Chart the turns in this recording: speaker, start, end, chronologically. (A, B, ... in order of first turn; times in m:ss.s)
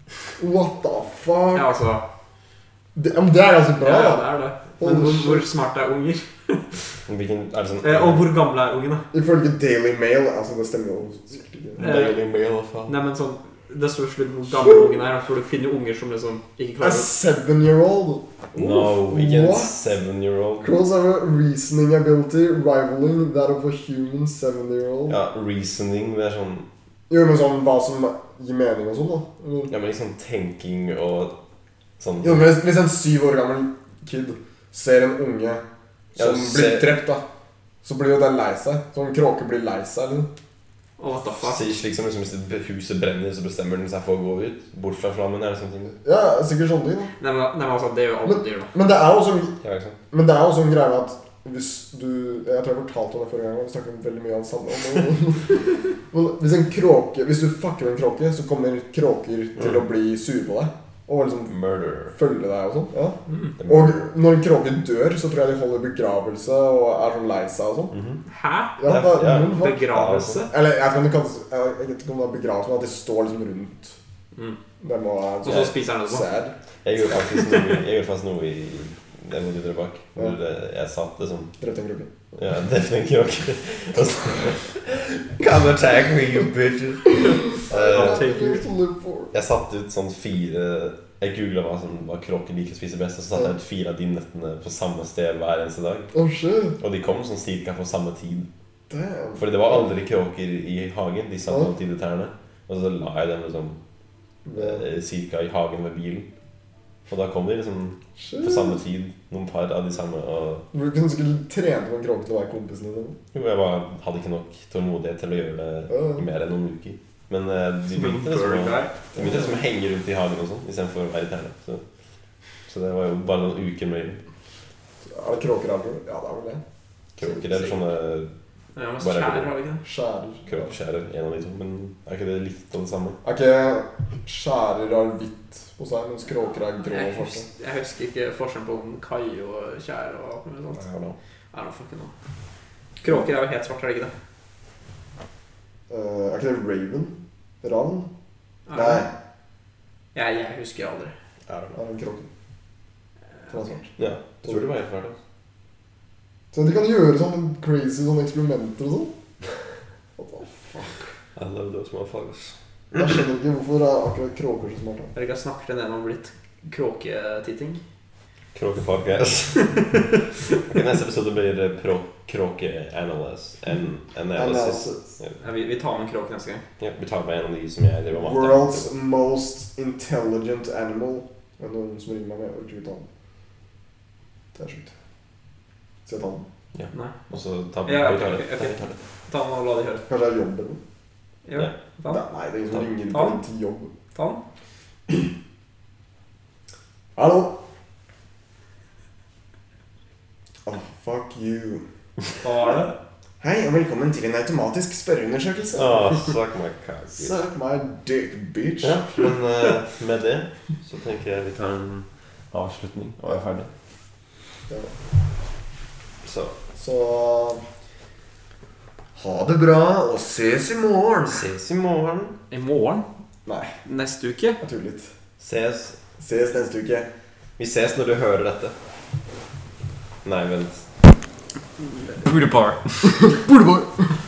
0:00.4-0:01.8 A
0:01.6-0:02.0 B
0:03.0-0:05.5 A
0:03.8-0:06.8 B
0:07.1-0:08.3 C
0:07.8-0:09.0 B
0:09.1-0:11.9 A
0:11.8-0:13.0 C
0:11.8-0:12.2 B
0:12.9-0:17.1 B
0:16.8-0:19.7 A
0:18.6-0:20.7 C
0:20.6-0:25.2 A
0:25.1-0:26.7 C
0:27.1-0:29.7 A
0:29.7-0:31.3 C
0:32.0-0:32.5 C
0:32.2-0:35.6 A
0:36.2-0:37.3 A
0:36.2-0:37.0 C
0:37.8-0:40.3 A
0:41.0-0:41.7 B
0:41.4-0:46.0 C
0:46.0-0:47.1 A
0:47.2-0:48.7 B
0:48.2-0:49.6 A
0:49.6-0:50.0 C
0:50.1-1:01.5 A
0:59.6-0:59.8 C
1:01.5-1:02.2 C
1:02.1-1:07.9 A
1:03.3-1:03.6 B
1:03.6-1:04.0 C
1:07.9-1:08.2 C
1:08.3-1:10.5 B
1:08.8-1:09.8 A
1:08.8-1:10.4 C
1:10.5-1:14.0 A
1:14.8-1:16.6 A
1:15.4-1:16.3 B
1:15.5-1:15.8 C
1:16.8-1:21.5 C
1:17.3-1:17.8 B
1:21.6-1:22.3 A
1:22.4-1:28.3 C
1:27.2-1:29.3 A
1:27.9-1:28.6 B
1:29.3-1:36.1 C
1:36.1-1:36.8 A
1:36.8-1:38.5 C
1:38.9-1:39.9 A
1:39.4-1:43.8 C
1:44.5-1:44.9 A
1:44.6-1:46.3 C
1:47.1-1:50.7 C
1:48.2-1:48.8 A
1:50.7-1:53.2 A
1:53.3-2:01.8 C
1:55.9-1:56.3 A
1:58.0-1:59.0 B
1:59.2-1:59.6 A
2:02.7-2:04.2 C
2:05.0-2:06.6 A
2:07.2-2:08.3 C
2:07.2-2:07.8 B
2:08.8-2:09.8 B
2:09.0-2:09.5 C
2:09.8-2:10.7 A
2:10.5-2:13.2 C
2:13.2-2:17.5 A
2:16.8-2:20.8 B
2:20.8-2:21.2 C
2:21.5-2:22.1 B
2:23.0-2:24.1 B
2:25.9-2:28.1 A
2:28.7-2:29.1 B
2:28.7-2:29.1 A
2:30.2-2:31.1 B
2:31.5-2:31.8 C
2:31.7-2:32.3 A
2:33.5-2:34.7 A
2:34.0-2:35.2 C
2:36.5-2:39.1 A
2:40.2-2:41.2 A
2:41.4-2:42.6 C
2:42.9-2:45.1 A
2:45.1-2:47.8 B
2:48.6-2:50.0 C
2:50.6-2:55.4 C
2:54.4-2:55.2 A
2:55.4-2:56.6 B
2:56.8-2:58.9 C
2:58.1-3:03.1 A
3:04.6-3:04.9 A
3:06.1-3:06.5 A
3:06.7-3:09.0 C
3:07.9-3:08.8 B
3:09.3-3:10.0 B
3:10.1-3:10.8 A
3:11.5-3:12.2 B
3:12.1-3:13.9 A
3:13.1-3:13.4 B
3:14.2-3:14.4 B
3:17.2-3:17.6 A
3:20.6-3:21.8 A
3:22.4-3:22.9 B
3:23.4-3:26.3 A
3:25.7-3:27.3 C
3:27.2-3:29.2 A
3:28.8-3:33.7 C
3:34.7-3:34.9 A
3:36.2-3:36.6 C
3:36.7-3:37.6 A
3:39.2-3:41.4 A
3:41.2-3:42.4 C
3:42.5-3:43.1 B
3:43.5-3:43.8 A
3:43.8-3:44.6 B
3:44.6-3:45.1 A
3:45.4-3:46.0 C
3:46.2-3:47.1 A
3:47.6-3:48.8 C
3:50.2-3:50.8 C
3:52.1-3:53.3 C
3:53.1-3:54.2 A